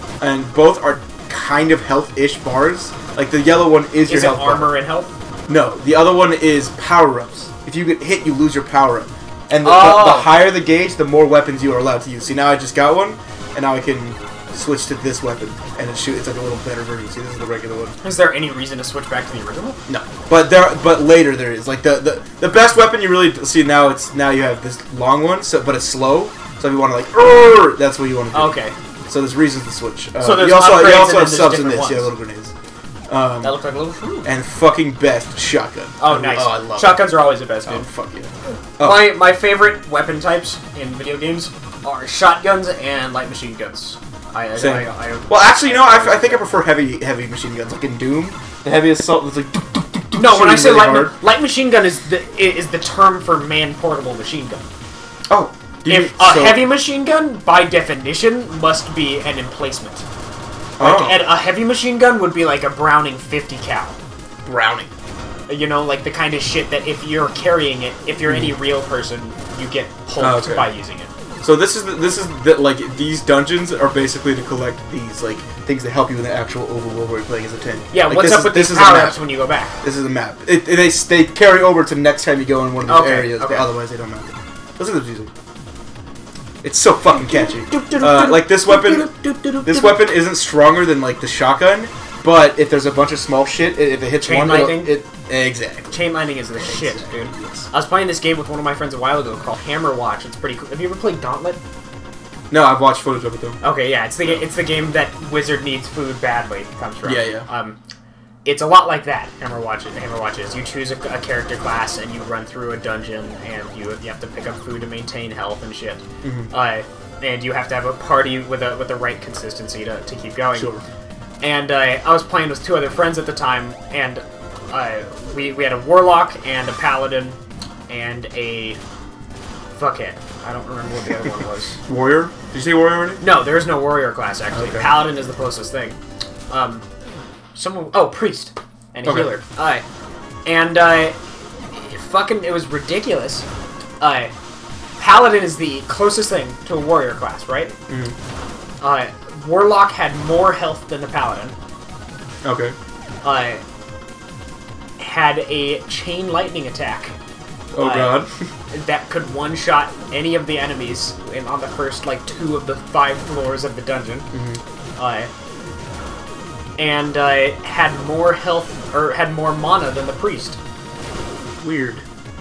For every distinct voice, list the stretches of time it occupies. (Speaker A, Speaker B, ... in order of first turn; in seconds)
Speaker A: 0.2-4.7, 5.5-18.0, 19.9-32.5, 33.1-33.6, 34.2-37.1, 37.6-39.2, 44.6-51.1, 55.3-56.7, 60.8-61.3, 64.5-64.9, 68.3-68.5, 70.2-70.7, 71.4-79.2, 79.8-85.3, 86.6-89.1, 89.6-96.0, 96.6-97.7, 102.5-103.6, 107.0-107.5, 116.2-116.5, 120.5-120.8, 131.9-133.2, 134.5-135.0, 139.0-139.3, 147.9-148.2, 152.4-152.8, 157.7-158.3, 164.3-164.6, 171.6-172.0
Speaker B: 4.1-5.1, 9.6-10.3, 18.0-19.8, 28.3-28.8, 30.2-32.1, 33.4-34.3, 36.0-37.9, 38.8-46.5, 50.1-54.7, 55.9-60.0, 60.8-64.0, 65.5-71.1, 77.9-79.7, 82.9-83.7, 87.1-90.0, 94.2-94.9, 95.9-101.6, 103.6-107.8, 108.5-120.7, 121.4-127.4, 127.9-128.8, 129.8-131.8, 133.2-136.0, 136.5-136.8, 137.6-139.8, 140.4-143.5, 144.0-144.3, 145.0-147.8, 148.8-151.6, 153.2-153.6, 155.0-157.2, 157.8-158.2, 158.7-164.3, 165.0-165.3, 166.8-170.6